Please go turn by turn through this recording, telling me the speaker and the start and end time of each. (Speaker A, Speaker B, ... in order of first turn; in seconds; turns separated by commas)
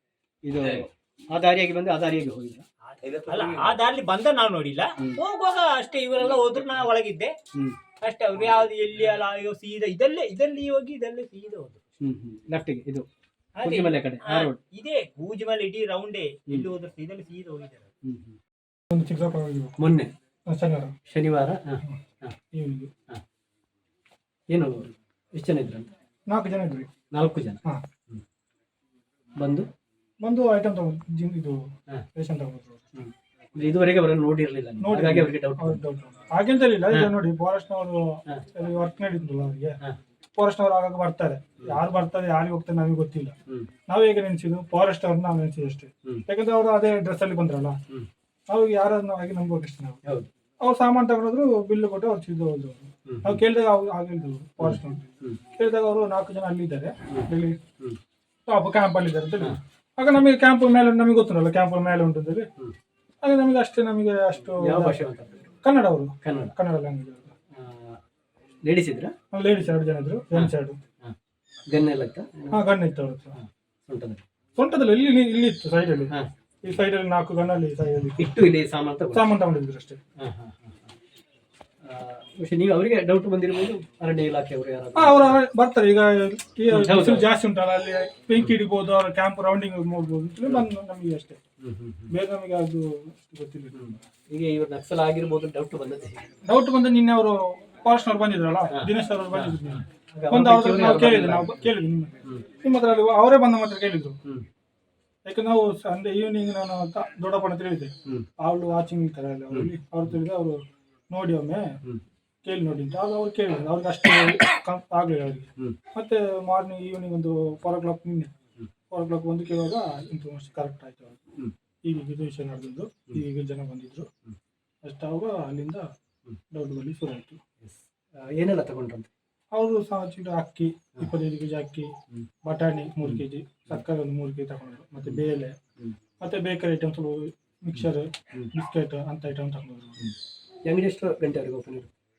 Speaker A: 0.4-2.6, Speaker B: 2.9-7.3, Speaker A: 7.5-7.8, Speaker B: 8.0-11.8, Speaker A: 12.0-13.1, Speaker B: 13.6-17.9, Speaker A: 13.6-14.6, Speaker A: 18.0-18.4, Speaker C: 18.9-19.8, Speaker A: 19.8-20.1, Speaker C: 20.5-20.9, Speaker A: 21.1-22.4, Speaker C: 22.5-22.9, Speaker A: 24.5-25.9, Speaker C: 26.3-26.9, Speaker A: 27.1-28.2, Speaker A: 29.4-29.7, Speaker C: 30.2-31.6, Speaker C: 32.1-32.8, Speaker A: 32.9-35.8, Speaker C: 34.8-39.8, Speaker A: 36.9-37.2, Speaker C: 40.4-43.3, Speaker C: 43.9-47.8, Speaker C: 48.5-50.0, Speaker C: 50.6-57.6, Speaker A: 53.1-53.4, Speaker A: 54.6-55.4, Speaker A: 57.1-58.0, Speaker C: 58.5-62.5, Speaker C: 63.2-65.0, Speaker A: 64.5-65.4, Speaker C: 65.6-67.3, Speaker A: 66.2-66.5, Speaker A: 67.5-68.0, Speaker A: 68.6-69.1, Speaker C: 69.3-70.8, Speaker A: 70.3-71.2, Speaker A: 71.7-72.6, Speaker C: 72.5-73.4, Speaker A: 73.3-74.2, Speaker C: 74.6-78.4, Speaker A: 78.2-79.2, Speaker C: 79.1-80.0, Speaker A: 80.2-81.0, Speaker A: 81.8-85.4, Speaker C: 84.9-91.4, Speaker A: 86.7-87.3, Speaker A: 91.6-92.1, Speaker C: 92.1-94.0, Speaker A: 93.7-96.2, Speaker C: 96.4-104.2, Speaker A: 98.7-101.7, Speaker C: 105.2-111.7, Speaker A: 109.5-110.1, Speaker C: 112.4-118.3, Speaker C: 118.9-121.2, Speaker C: 121.8-124.1, Speaker C: 124.8-125.9, Speaker C: 126.5-127.4, Speaker A: 127.6-129.1, Speaker C: 129.5-131.9, Speaker C: 132.4-135.6, Speaker A: 133.0-133.8, Speaker C: 136.2-140.0, Speaker A: 137.8-138.5, Speaker A: 140.0-141.9